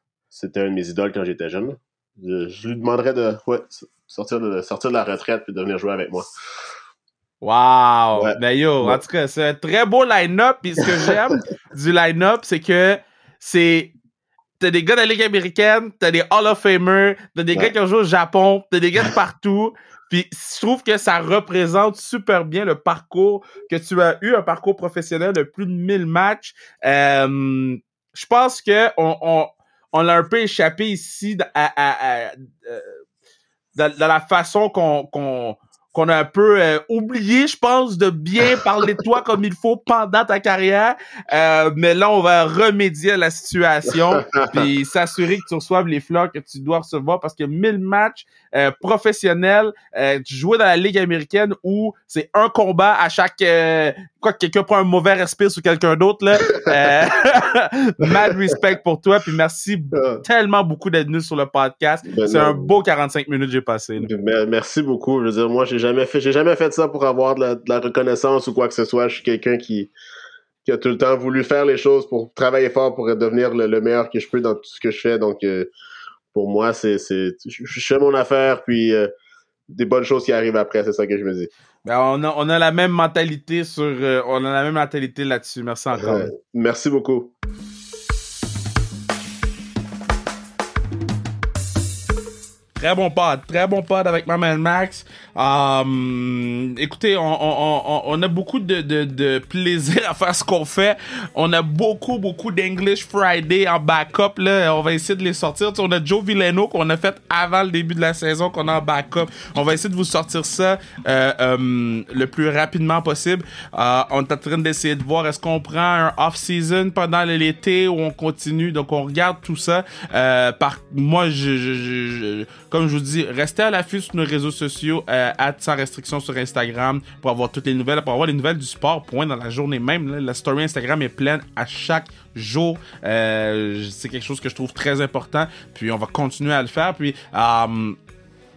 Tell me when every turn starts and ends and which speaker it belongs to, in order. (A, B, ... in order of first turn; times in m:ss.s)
0:00.3-0:06.3 A
0:07.4-0:13.9 B
0:08.2-0:09.0 A
0:10.8-0:11.2 A
0:14.6-0:33.0 B
0:33.8-1:04.1 B
0:38.9-0:39.2 A
0:44.1-0:44.7 A
0:58.0-0:58.3 A
0:59.9-1:00.2 A
1:02.1-1:02.8 A
1:04.0-1:09.9 A
1:10.6-1:15.7 A
1:16.3-1:19.1 A
1:19.7-1:21.5 A
1:21.8-1:26.3 B
1:25.9-1:27.3 A
1:32.8-2:18.0 B